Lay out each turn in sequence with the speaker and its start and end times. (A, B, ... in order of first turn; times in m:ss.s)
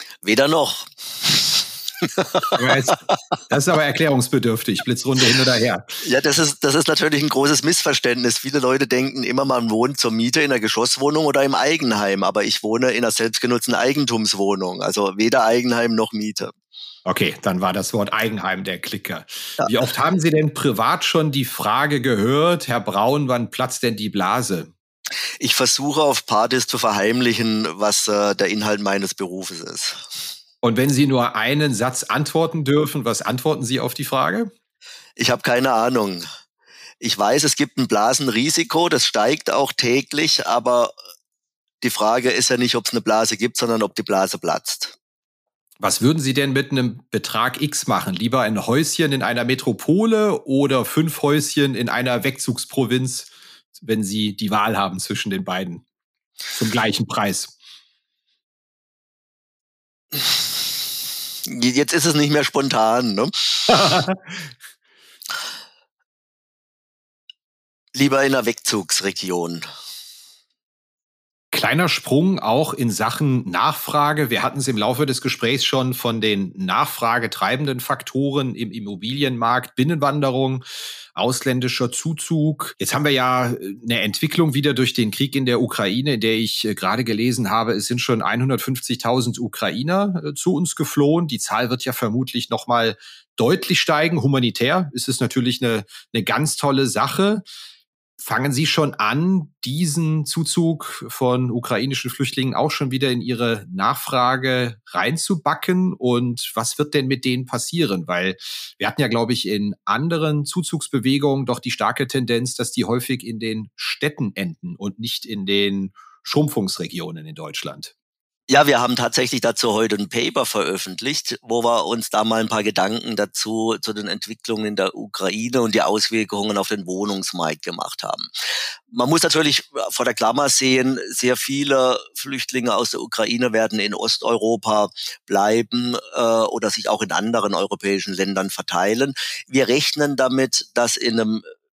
0:00.2-0:02.7 A
0:02.5-0:05.8 B
0:06.0-0:16.5 A
0:17.0-0:24.7 B
0:25.4-0:30.0 A
0:30.6-0:34.5 B
0:35.2-0:36.2 A
0:37.0-0:40.9 A
0:41.8-0:45.0 A
0:45.8-0:55.8 B
0:56.5-0:57.5 B
1:00.1-1:00.7 A
1:01.4-1:03.7 A
1:03.7-1:04.4 B
1:07.9-1:09.6 A
1:11.5-1:20.6 B
1:21.1-1:37.4 B
1:38.2-1:57.9 B
1:58.5-2:08.2 A
2:08.9-2:21.4 A